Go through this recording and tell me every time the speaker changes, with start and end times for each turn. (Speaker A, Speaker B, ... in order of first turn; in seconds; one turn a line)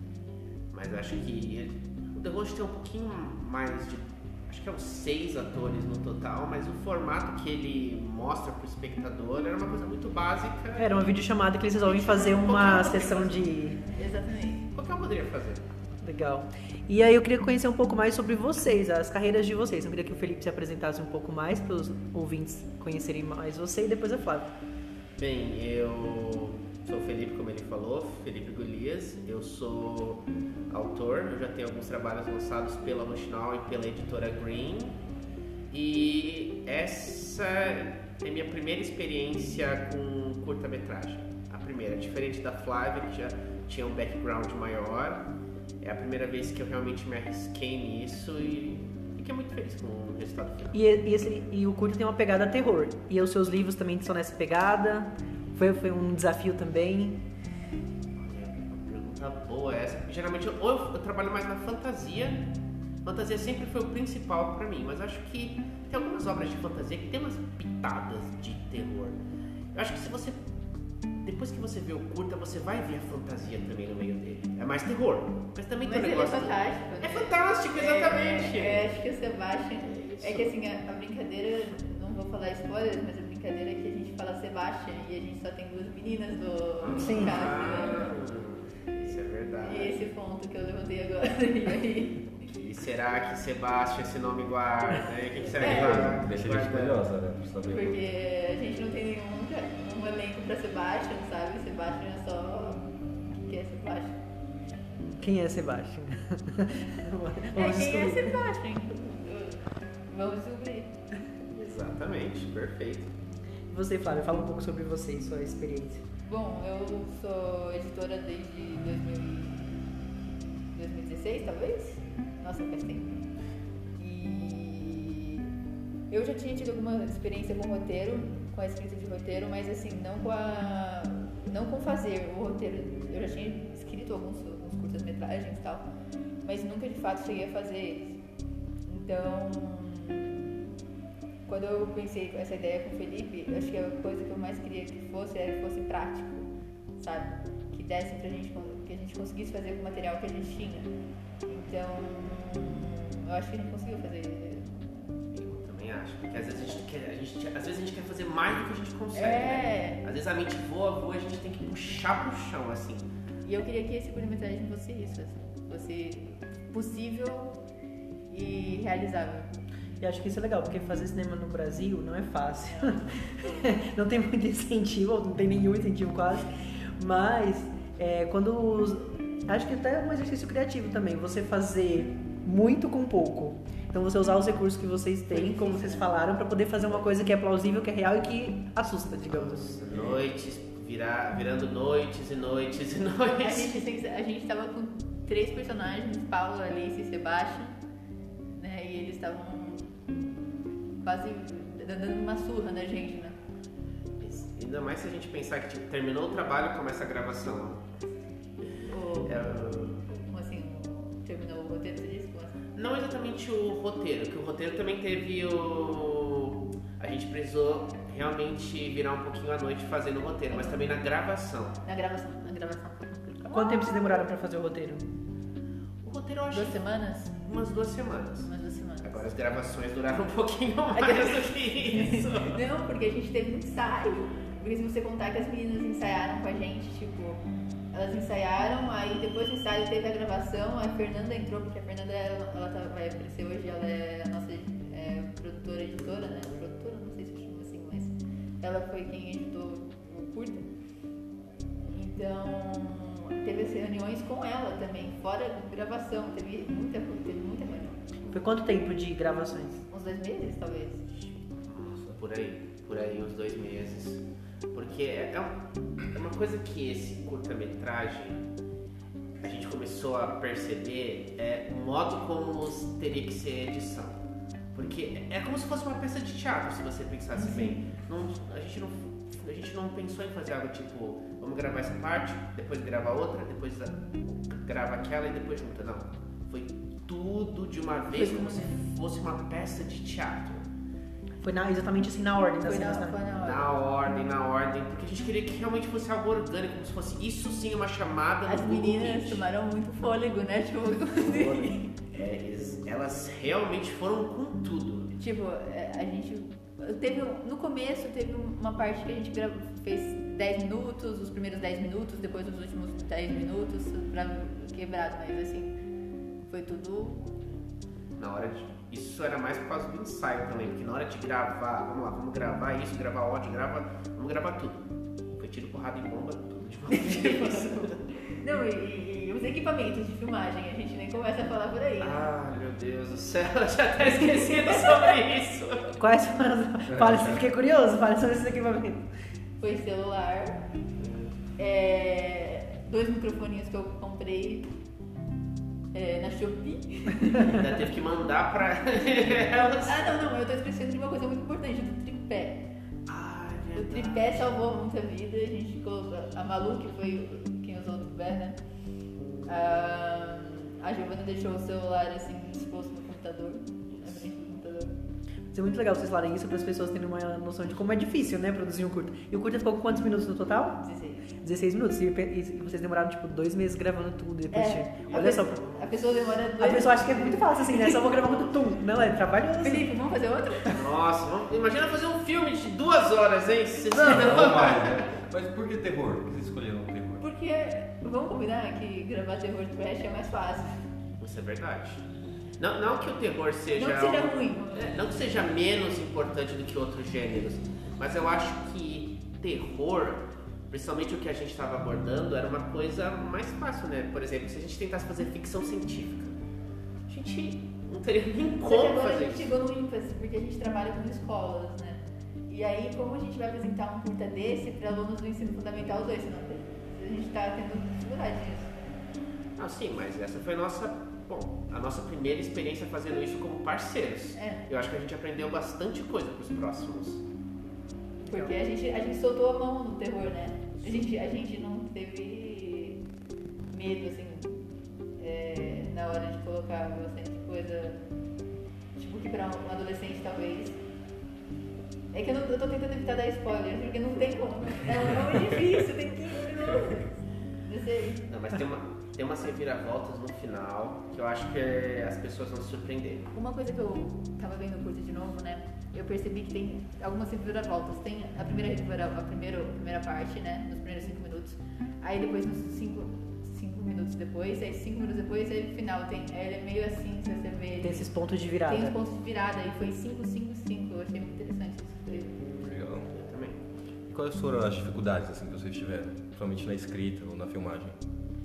Speaker A: 0.7-11.1
Speaker B: 10.8-13.8
Speaker A: 11.8-13.4
Speaker C: 13.9-14.6
Speaker A: 14.7-15.7
Speaker B: 16.0-24.5
Speaker A: 25.2-35.0
Speaker A: 35.7-45.2
Speaker A: 45.8-50.8
Speaker B: 50.7-57.2
Speaker A: 58.2-62.4
Speaker A: 63.0-69.2
Speaker A: 69.7-70.4
Speaker A: 71.2-78.9
Speaker C: 75.8-88.2
Speaker A: 80.0-80.5
Speaker A: 86.8-89.9
Speaker B: 86.9-87.5
Speaker C: 89.6-92.5
Speaker A: 92.4-97.1
Speaker C: 95.6-96.2
Speaker D: 95.6-98.0
Speaker C: 97.7-104.2
Speaker B: 105.2-108.4
Speaker C: 107.5-110.9
Speaker A: 111.5-113.1
Speaker B: 113.7-116.0
Speaker C: 116.3-119.9
Speaker C: 120.7-123.2
Speaker C: 124.0-125.5
Speaker C: 126.1-135.8
Speaker C: 136.4-138.2
Speaker C: 138.9-140.7
Speaker C: 141.4-150.9
Speaker C: 151.4-155.2
Speaker A: 155.3-163.1
Speaker C: 156.3-156.8
Speaker C: 159.1-160.0
Speaker C: 163.4-167.6
Speaker C: 168.3-169.5
Speaker B: 170.0-189.7
Speaker C: 172.6-173.1
Speaker C: 185.3-186.1
Speaker A: 189.3-193.9
Speaker C: 193.4-197.8
Speaker C: 198.5-200.1
Speaker C: 201.0-203.3
Speaker A: 204.2-207.8
Speaker C: 208.9-209.4
Speaker A: 209.2-210.1
Speaker C: 210.2-212.7
Speaker A: 212.7-221.8
Speaker C: 220.5-220.8
Speaker C: 221.8-224.2
Speaker B: 223.5-225.0
Speaker A: 226.0-226.8
Speaker C: 226.5-227.3
Speaker A: 227.4-228.5
Speaker C: 228.4-229.3
Speaker A: 229.0-232.6
Speaker C: 230.9-237.4
Speaker C: 237.9-250.7
Speaker C: 251.8-258.0
Speaker B: 258.3-259.8
Speaker C: 259.9-261.1
Speaker A: 261.7-265.5
Speaker A: 266.1-268.4
Speaker A: 269.4-274.2
Speaker A: 274.7-290.7
Speaker C: 277.3-277.8
Speaker C: 288.1-288.8
Speaker B: 291.4-293.2
Speaker C: 292.6-293.7
Speaker A: 293.4-299.4
Speaker C: 298.4-302.0
Speaker A: 301.1-305.1
Speaker C: 305.1-315.7
Speaker C: 316.5-317.2
Speaker A: 318.2-328.0
Speaker C: 326.9-332.2
Speaker A: 332.0-335.9
Speaker B: 336.0-339.1
Speaker D: 336.9-337.4
Speaker C: 339.6-340.6
Speaker A: 341.0-341.3
Speaker C: 341.6-344.6
Speaker C: 345.9-347.6
Speaker A: 347.3-350.2
Speaker C: 349.8-352.6
Speaker A: 353.1-354.6
Speaker C: 353.7-358.6
Speaker C: 359.5-364.9
Speaker A: 363.9-364.2
Speaker B: 365.5-370.8
Speaker C: 370.8-371.3
Speaker B: 371.4-375.6
Speaker C: 374.5-378.1
Speaker A: 375.1-376.4
Speaker B: 376.6-379.9
Speaker A: 378.0-378.5
Speaker C: 379.6-380.8
Speaker A: 380.7-385.1
Speaker D: 384.0-387.2
Speaker C: 387.2-390.8
Speaker A: 391.2-392.0
Speaker A: 392.6-406.4
Speaker C: 393.7-395.0
Speaker A: 407.1-409.5
Speaker C: 408.6-418.7
Speaker A: 419.6-427.2
Speaker C: 424.3-424.7
Speaker B: 428.2-428.5
Speaker C: 428.2-433.0
Speaker C: 433.7-438.0
Speaker C: 438.9-440.8
Speaker C: 442.1-448.2
Speaker A: 448.3-453.3
Speaker C: 453.3-472.4
Speaker B: 467.8-469.0
Speaker D: 472.6-473.1
Speaker A: 473.1-473.6
Speaker D: 474.1-478.0